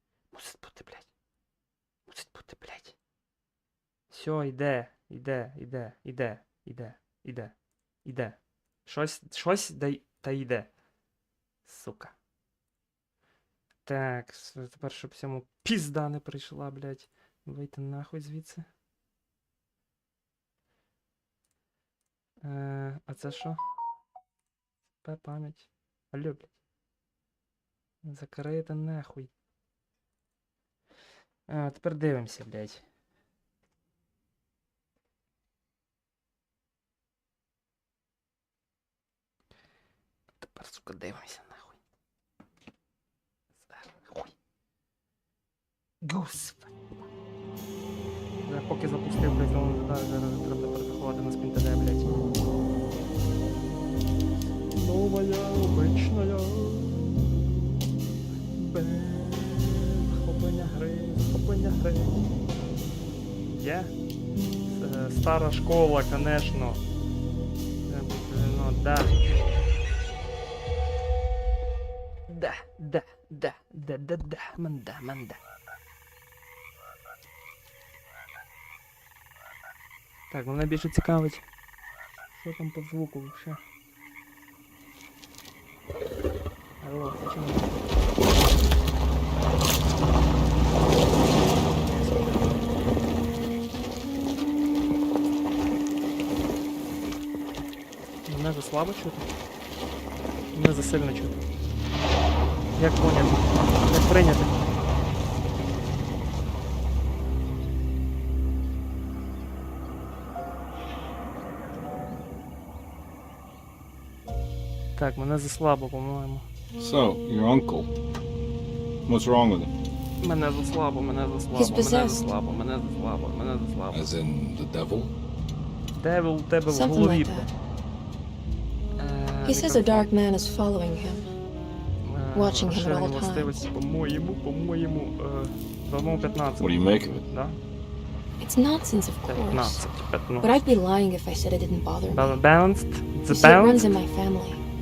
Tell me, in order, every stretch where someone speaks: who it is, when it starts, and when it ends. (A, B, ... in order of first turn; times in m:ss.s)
0:00.3-0:01.1 A
0:02.1-0:02.9 A
0:04.1-0:07.5 A
0:08.0-0:10.7 A
0:11.7-0:12.1 A
0:13.8-0:18.7 A
0:22.4-0:23.6 A
0:25.0-0:26.5 A
0:28.0-0:29.3 A
0:31.5-0:32.8 A
0:40.4-0:41.8 A
0:43.6-0:44.3 A
0:46.0-0:46.7 A
0:48.4-0:52.3 A
0:54.7-0:57.6 A
0:58.6-1:02.4 A
1:03.5-1:03.9 A
1:04.6-1:06.8 A
1:07.9-1:09.6 A
1:12.3-1:15.4 A
1:20.3-1:21.4 A
1:22.4-1:23.6 A
1:26.8-1:27.7 A
1:31.4-1:32.6 A
1:38.2-1:39.2 A
1:40.5-1:41.4 A
1:42.8-1:44.5 A
1:55.0-1:56.4 A
1:56.8-1:57.9 B
1:59.0-1:59.7 B
2:00.2-2:04.1 A
2:01.6-2:02.2 C
2:03.9-2:05.2 B
2:06.0-2:07.5 A
2:06.7-2:07.5 C
2:09.0-2:10.1 A
2:09.4-2:11.2 C
2:12.0-2:17.6 A
2:12.3-2:13.6 C
2:16.6-2:17.2 B
2:18.4-2:19.8 C
2:19.3-2:20.5 A
2:20.4-2:22.3 C
2:22.1-2:23.8 A
2:23.3-2:24.6 C